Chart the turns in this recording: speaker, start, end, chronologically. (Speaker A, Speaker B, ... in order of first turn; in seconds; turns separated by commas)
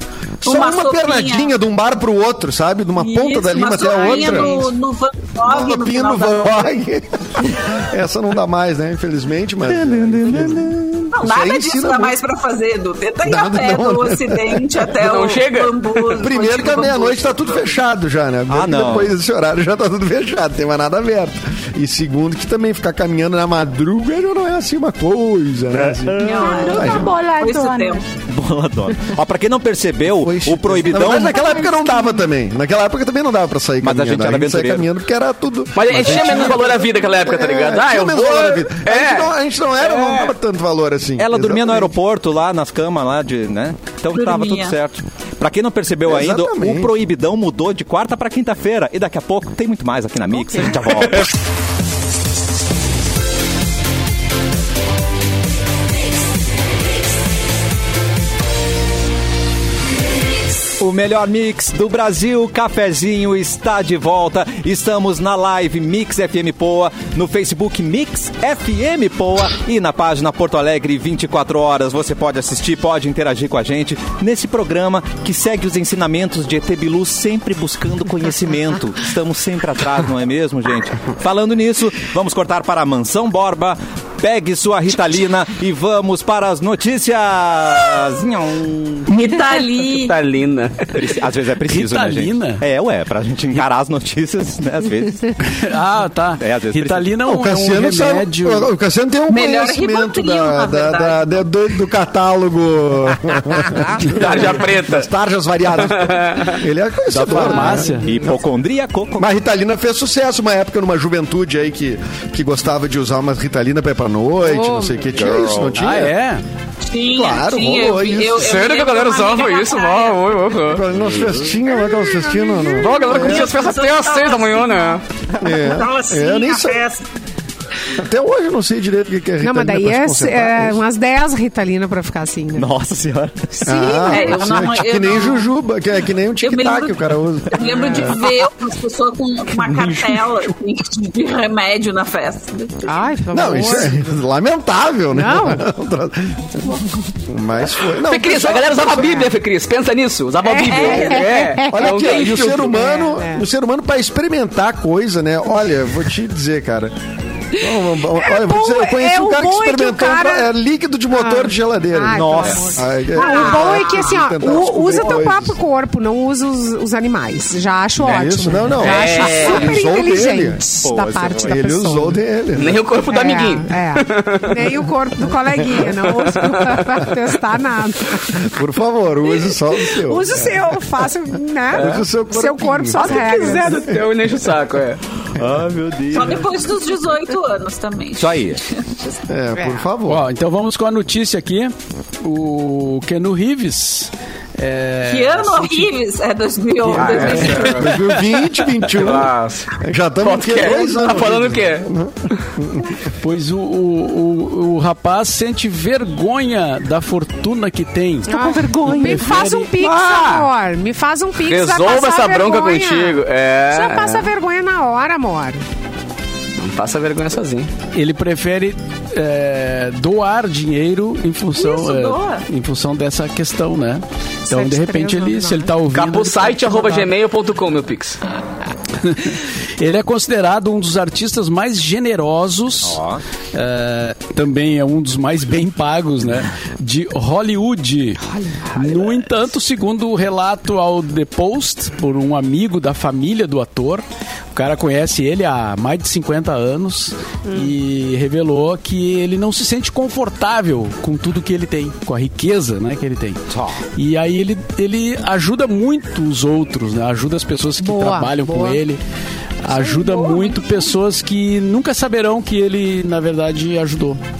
Speaker A: 0.4-4.7, Speaker B: 0.5-1.5, Speaker B: 3.0-6.8, Speaker C: 3.8-4.6, Speaker A: 5.4-12.2, Speaker D: 9.7-11.1, Speaker B: 11.1-17.8, Speaker A: 13.2-14.9, Speaker E: 15.0-16.3, Speaker A: 16.2-26.2, Speaker D: 18.5-19.1, Speaker D: 25.8-26.7, Speaker C: 26.2-28.1, Speaker B: 26.2-28.1, Speaker A: 26.7-27.1, Speaker D: 28.2-31.6, Speaker A: 30.1-42.0, Speaker C: 31.0-32.2, Speaker D: 33.8-34.9, Speaker E: 35.8-40.3, Speaker F: 35.9-36.7, Speaker D: 41.2-51.3, Speaker B: 44.1-44.8, Speaker A: 46.0-46.9, Speaker D: 60.8-89.1, Speaker B: 89.1-90.1, Speaker E: 89.9-91.1, Speaker D: 90.9-95.4, Speaker F: 91.7-92.7, Speaker F: 95.5-98.7, Speaker D: 96.4-97.1, Speaker A: 97.2-108.4, Speaker B: 99.3-101.5, Speaker D: 103.3-104.5, Speaker E: 104.1-105.1, Speaker E: 105.7-106.6, Speaker F: 107.1-108.2, Speaker C: 107.4-107.9, Speaker D: 108.0-109.3, Speaker A: 109.2-116.1, Speaker C: 114.4-115.2, Speaker D: 115.2-115.8, Speaker F: 115.8-116.4, Speaker B: 116.9-120.2, Speaker A: 117.1-118.6, Speaker E: 118.4-120.9, Speaker A: 120.7-123.5, Speaker C: 121.7-122.9, Speaker E: 122.8-125.0, Speaker B: 123.0-127.0, Speaker A: 125.4-126.8, Speaker A: 128.0-130.8, Speaker C: 129.4-132.7, Speaker D: 132.6-133.6, Speaker C: 133.6-134.7, Speaker A: 133.7-138.3, Speaker B: 134.1-135.5, Speaker B: 136.4-143.1, Speaker C: 142.9-144.1, Speaker A: 143.3-149.3, Speaker C: 145.1-145.7, Speaker E: 147.9-152.7, Speaker C: 150.4-153.4, Speaker B: 150.7-151.5, Speaker A: 151.7-156.9, Speaker A: 157.6-165.6, Speaker C: 158.0-160.5, Speaker C: 161.1-172.2, Speaker D: 162.1-162.7, Speaker B: 163.1-164.2, Speaker B: 164.9-165.2, Speaker A: 168.0-170.6, Speaker E: 168.1-169.8, Speaker D: 170.8-171.6, Speaker A: 171.4-172.8, Speaker E: 172.6-174.8, Speaker C: 173.1-178.5, Speaker E: 176.0-177.0, Speaker A: 178.4-180.7, Speaker C: 180.0-183.9, Speaker A: 181.7-183.6, Speaker E: 181.8-182.1, Speaker E: 182.9-185.0, Speaker D: 185.3-186.5, Speaker B: 186.1-189.2, Speaker D: 188.2-188.6, Speaker A: 189.3-190.2, Speaker C: 189.6-189.9, Speaker F: 190.1-195.9, Speaker B: 195.1-197.8, Speaker F: 196.8-198.4, Speaker E: 196.9-197.9, Speaker A: 197.2-203.0, Speaker E: 198.9-199.7, Speaker E: 200.2-202.5, Speaker F: 203.2-209.7, Speaker C: 208.3-215.6, Speaker E: 209.8-210.5, Speaker E: 211.4-214.3, Speaker E: 216.6-217.7, Speaker F: 217.9-227.1, Speaker B: 221.6-222.5, Speaker C: 224.5-225.7, Speaker E: 225.9-228.2, Speaker F: 229.0-233.0, Speaker D: 232.8-233.2, Speaker F: 233.5-253.4, Speaker C: 238.3-238.8, Speaker C: 247.5-247.7, Speaker D: 253.5-253.8, Speaker F: 253.9-259.0, Speaker C: 257.8-258.8, Speaker F: 259.6-264.2, Speaker B: 259.7-260.9